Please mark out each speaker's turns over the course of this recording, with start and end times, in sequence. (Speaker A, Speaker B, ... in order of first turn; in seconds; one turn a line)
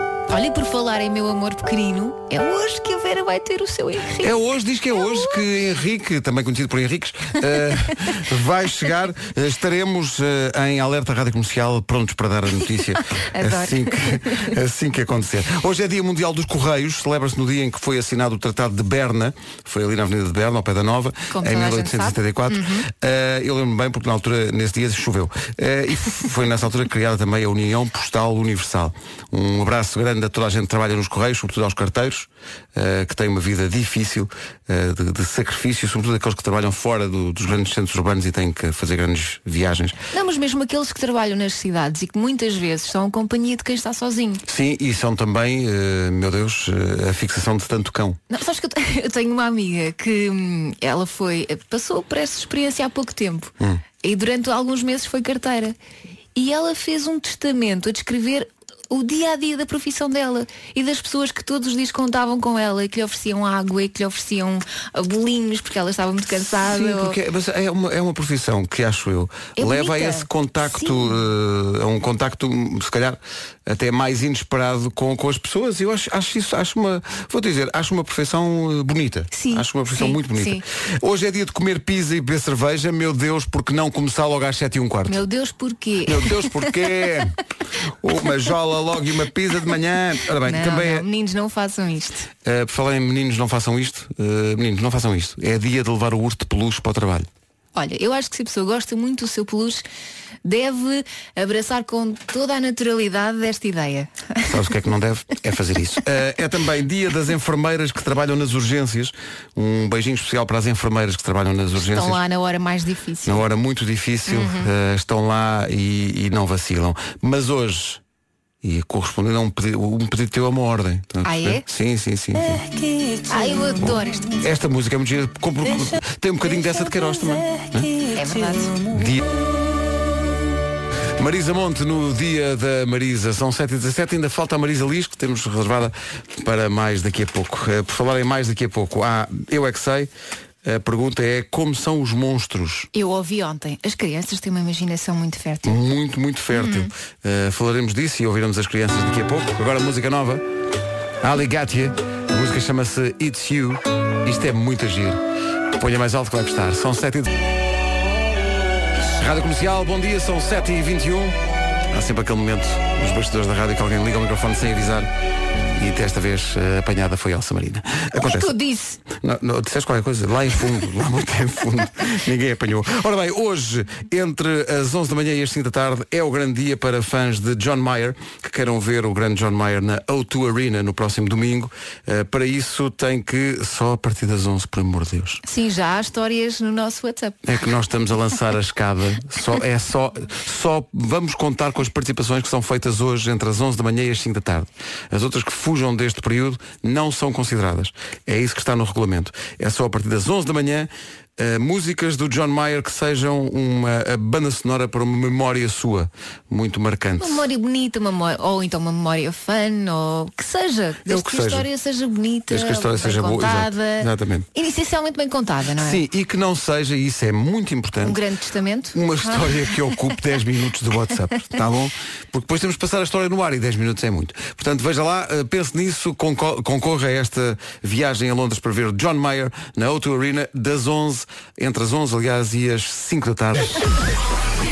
Speaker A: 0.3-4.3
Speaker B: 4.2-40.0
Speaker A: 13.3-14.5
Speaker A: 21.3-22.9
Speaker A: 40.1-44.4
Speaker B: 44.5-48.2
Speaker A: 48.3-55.8
Speaker A: 56.4-67.2
Speaker B: 66.6-85.2
Speaker A: 69.6-71.2
Speaker A: 79.3-80.6
Speaker A: 85.1-86.7
Speaker B: 86.0-87.4
Speaker B: 88.0-91.1
Speaker A: 90.5-92.3
Speaker B: 92.4-97.3
Speaker A: 97.8-99.8
Speaker A: 100.4-104.5
Speaker B: 104.5-112.2
Speaker A: 111.8-113.5
Speaker B: 113.2-118.0
Speaker A: 114.3-114.7
Speaker B: 118.6-122.7
Speaker A: 121.2-121.6
Speaker A: 123.3-124.4
Speaker B: 123.8-128.0
Speaker A: 128.0-128.8
Speaker B: 128.9-129.3
Speaker B: 131.2-140.1
Speaker B: 140.6-142.9
Speaker A: 142.9-145.8
Speaker B: 145.7-150.4
Speaker A: 146.5-146.9
Speaker B: 151.2-155.2
Speaker B: 155.7-157.4
Speaker B: 159.2-161.4
Speaker B: 161.9-165.1
Speaker B: 165.8-168.6
Speaker A: 168.2-169.0
Speaker B: 169.1-185.4
Speaker A: 185.4-187.4
Speaker B: 187.4-207.5
Speaker A: 207.2-216.0
Speaker B: 211.1-211.7
Speaker B: 212.5-214.5
Speaker B: 215.8-218.2
Speaker A: 218.0-219.7
Speaker B: 218.9-233.9